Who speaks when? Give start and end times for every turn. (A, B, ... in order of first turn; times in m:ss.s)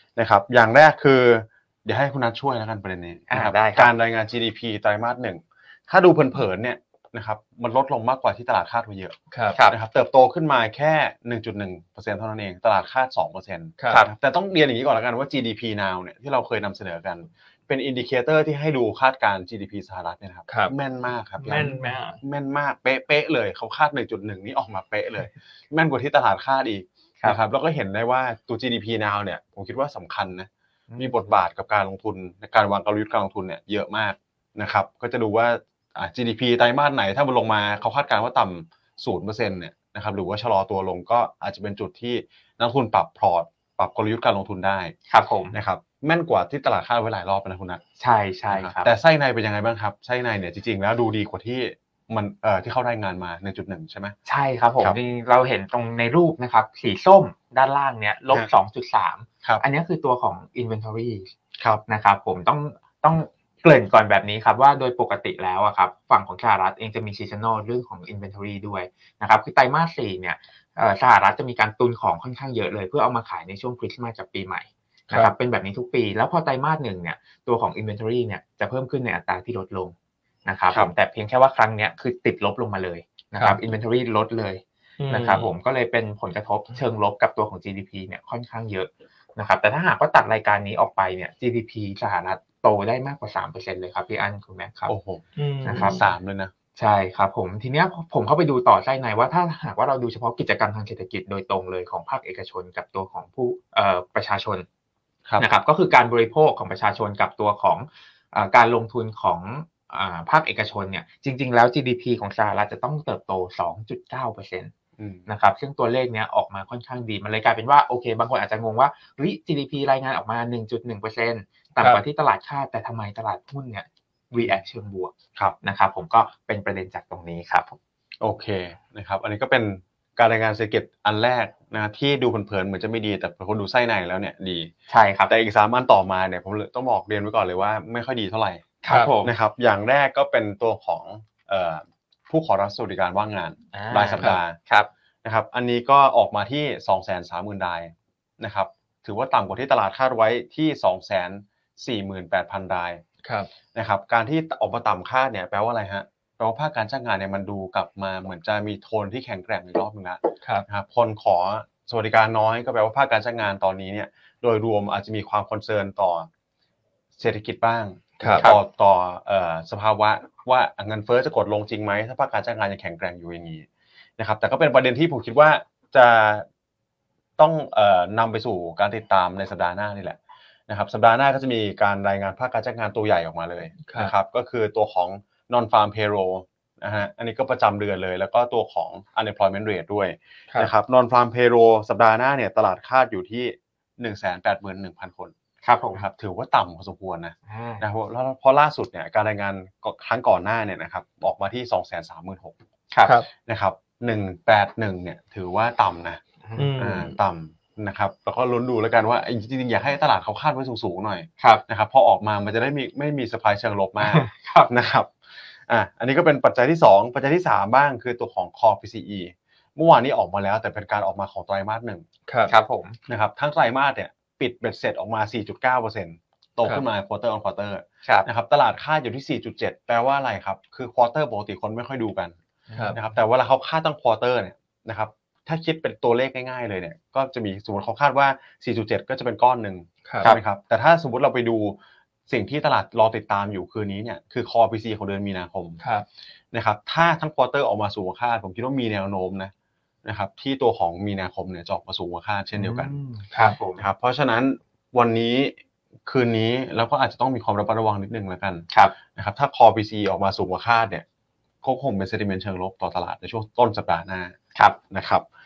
0:00.2-0:09.2 A
0:03.3-0:03.9 B
0:09.3-0:09.6 C
0:09.7-0:45.0 A
0:13.8-0:14.0 C
0:20.5-0:20.7 C
0:21.4-0:22.2 C
0:30.9-0:31.4 B
0:45.1-0:45.6 B
0:45.5-0:47.8 A
0:48.0-0:48.9 B
0:48.5-0:54.2 A
0:54.3-1:01.3 B
1:01.9-1:19.9 B
1:20.5-1:35.0 B
1:25.0-1:25.5 C
1:34.9-1:35.2 A
1:35.4-1:36.1 C
1:35.6-1:36.0 B
1:35.7-1:36.5 A
1:36.8-1:44.7 B
1:45.4-1:54.7 B
1:55.0-1:55.3 A
1:55.3-2:07.8 B
2:08.2-2:14.7 A
2:14.9-2:15.3 B
2:15.3-2:24.6 A
2:18.8-2:19.3 B
2:23.7-2:24.9 B
2:25.2-2:33.0 A
2:33.2-2:33.5 C
2:33.7-2:46.3 A
2:47.2-2:53.7 A
2:48.2-2:48.5 C
2:54.2-2:56.5 A
2:57.4-3:15.3 A
3:03.8-3:04.1 C
3:15.6-3:16.1 B
3:16.0-3:22.6 A
3:17.5-3:17.8 B
3:22.9-3:23.2 B
3:23.3-3:26.2 A
3:26.4-3:26.9 B
3:26.6-3:27.1 C
3:26.8-3:42.0 A
3:34.0-3:34.7 B
3:42.3-3:42.5 C
3:42.5-3:43.0 B
3:43.1-3:52.4 A
3:52.7-3:53.1 B
3:52.7-3:53.0 C
3:52.9-4:01.8 A
4:00.0-4:00.3 C
4:02.3-4:05.8 A
4:05.8-4:06.1 C
4:06.5-4:09.5 A
4:10.0-4:13.0 A
4:12.6-4:13.9 B
4:13.8-4:15.6 A
4:16.1-4:21.0 A
4:18.7-4:19.0 B
4:21.6-4:24.4 A
4:24.9-4:25.3 A